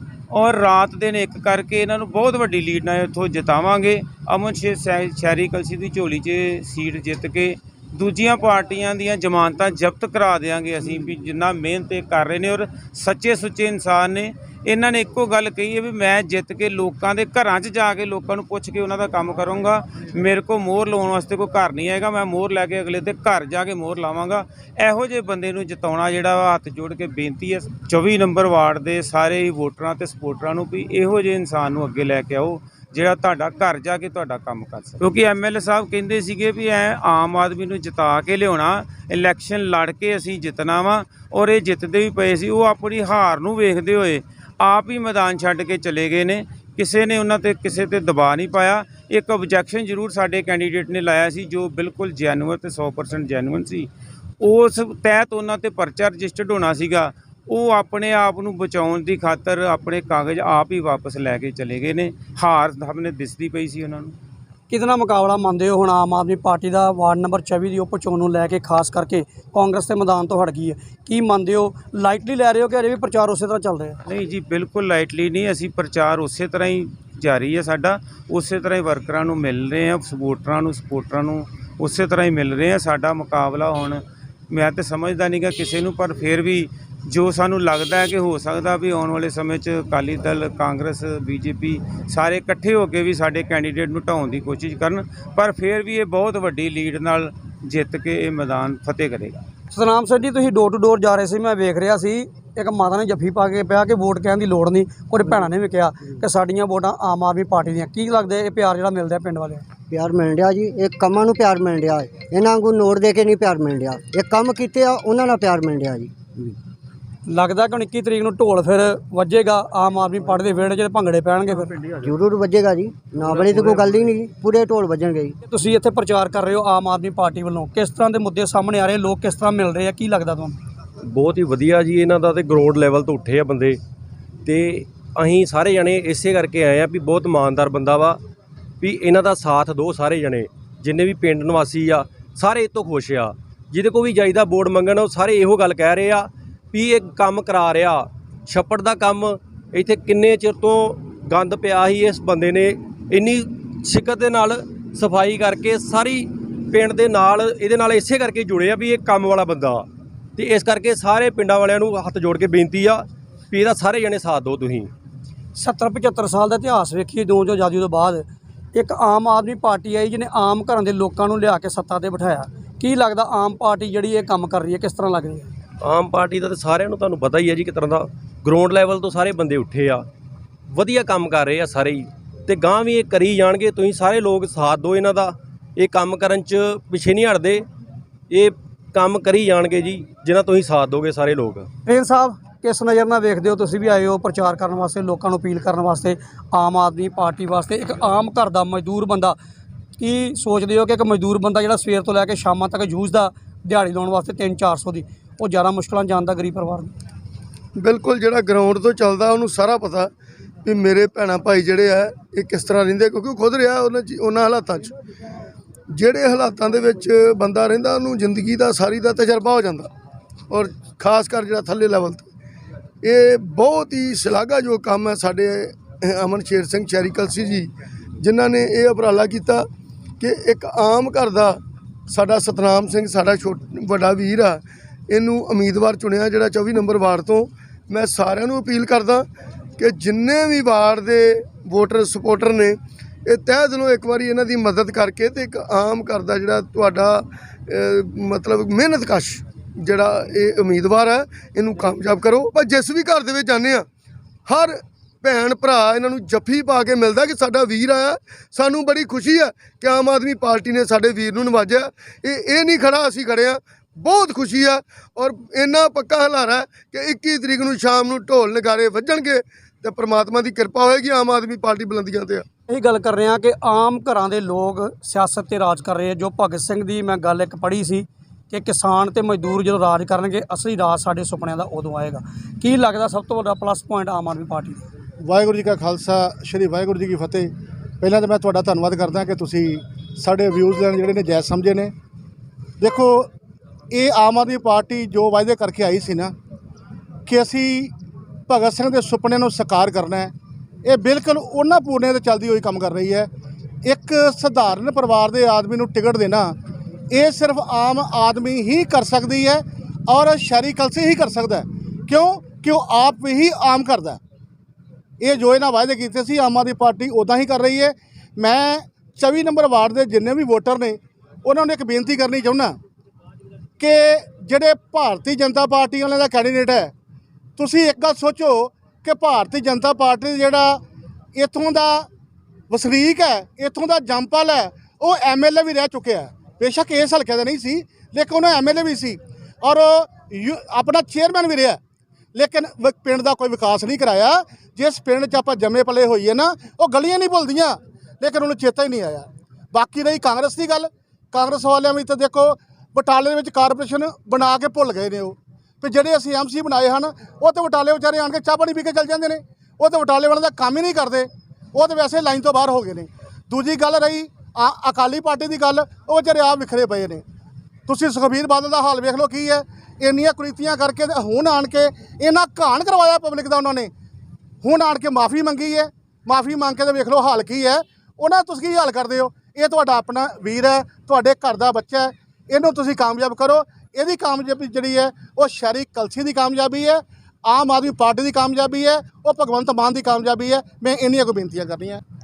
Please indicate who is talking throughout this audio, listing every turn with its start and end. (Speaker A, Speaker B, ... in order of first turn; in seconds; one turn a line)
Speaker A: 0.3-53.9
Speaker A: 54.4-64.1
Speaker B: 64.7-74.0
Speaker A: 74.0-99.5
Speaker B: 99.7-109.6
Speaker C: 109.9-116.5
Speaker B: 117.3-121.9
Speaker C: 122.0-125.3
Speaker B: 125.5-130.6
Speaker D: 131.0-133.8
Speaker D: 134.4-138.2
Speaker D: 138.8-159.8
Speaker D: 160.4-164.9
Speaker B: 165.5-175.5
Speaker D: 175.8-180.1
Speaker D: 180.7-187.7
Speaker D: 188.3-191.7
Speaker B: 191.8-199.4
Speaker B: 200.0-206.9
Speaker E: 207.8-210.1
Speaker E: 210.6-214.9
Speaker E: 215.9-219.9
Speaker E: 220.5-222.3
Speaker E: 223.0-229.6
Speaker E: 230.2-239.3
Speaker E: 239.8-253.8
Speaker E: 254.5-272.4
Speaker B: 272.7-284.9
Speaker F: 285.2-287.5
Speaker F: 288.0-291.9
Speaker F: 292.8-293.3
Speaker F: 293.9-296.3
Speaker F: 297.3-297.9
Speaker F: 298.5-300.3
Speaker F: 300.9-303.3
Speaker F: 303.8-306.5
Speaker F: 307.1-314.2
Speaker F: 315.2-322.8
Speaker F: 323.8-326.9
Speaker F: 327.6-330.8
Speaker F: 331.4-332.1
Speaker F: 332.7-341.8
Speaker F: 342.3-367.2
Speaker F: 367.9-373.9
Speaker F: 374.6-392.0